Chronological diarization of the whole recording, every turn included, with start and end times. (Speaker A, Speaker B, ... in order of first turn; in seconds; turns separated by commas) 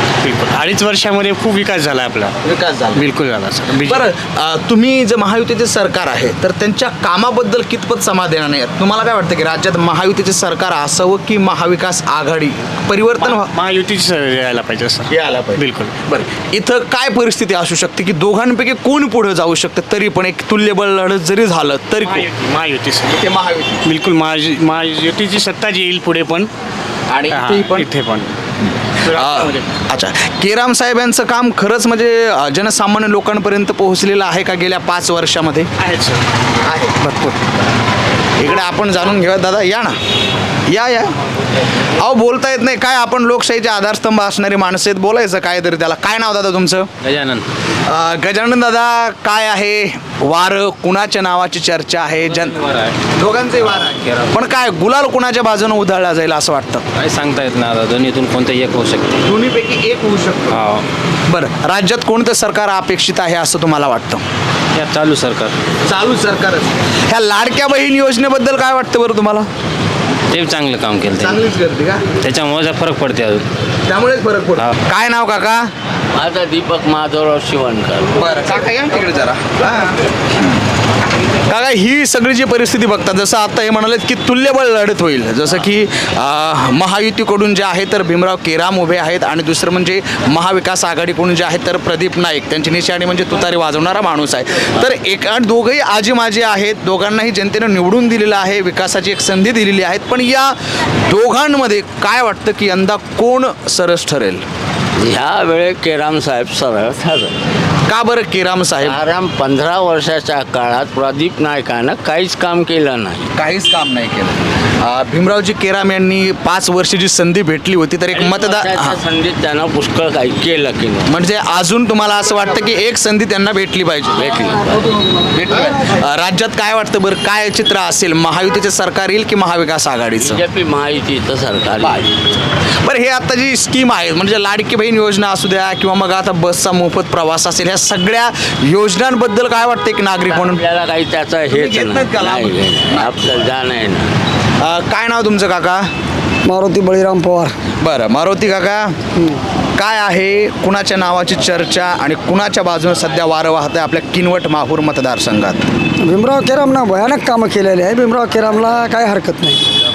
Speaker A: 0.2-2.3, Speaker B: 2.4-3.1, Speaker A: 2.9-4.0, Speaker B: 3.7-13.5, Speaker A: 13.2-15.9, Speaker B: 15.1-22.3, Speaker A: 22.0-23.1, Speaker B: 23.0-23.8, Speaker A: 23.8-26.5, Speaker B: 27.1-27.9, Speaker A: 27.3-28.3, Speaker A: 29.0-29.6, Speaker B: 29.1-35.7, Speaker A: 35.8-36.2, Speaker B: 36.6-36.9, Speaker A: 37.0-37.4, Speaker B: 38.4-40.0, Speaker B: 40.7-41.1, Speaker B: 42.0-46.9, Speaker C: 47.0-47.5, Speaker B: 47.9-52.6, Speaker C: 52.5-52.9, Speaker B: 53.1-56.8, Speaker C: 57.0-59.2, Speaker B: 59.2-60.7, Speaker C: 60.5-60.8, Speaker B: 61.3-64.2, Speaker C: 64.8-65.5, Speaker B: 65.9-69.5, Speaker C: 70.3-71.4, Speaker B: 71.1-72.0, Speaker C: 72.2-73.4, Speaker B: 73.9-75.7, Speaker D: 76.1-78.1, Speaker B: 78.2-80.6, Speaker B: 81.5-100.5, Speaker B: 101.1-104.4, Speaker D: 105.0-107.3, Speaker B: 107.9-109.0, Speaker D: 108.8-113.3, Speaker B: 113.3-119.0, Speaker D: 118.1-121.1, Speaker B: 121.0-124.6, Speaker B: 125.3-130.4, Speaker D: 130.2-132.1, Speaker B: 132.8-140.6, Speaker D: 140.2-144.1, Speaker B: 141.4-143.2, Speaker B: 144.6-145.8, Speaker E: 146.4-147.5, Speaker B: 147.8-148.9, Speaker B: 149.8-155.6, Speaker E: 156.0-159.6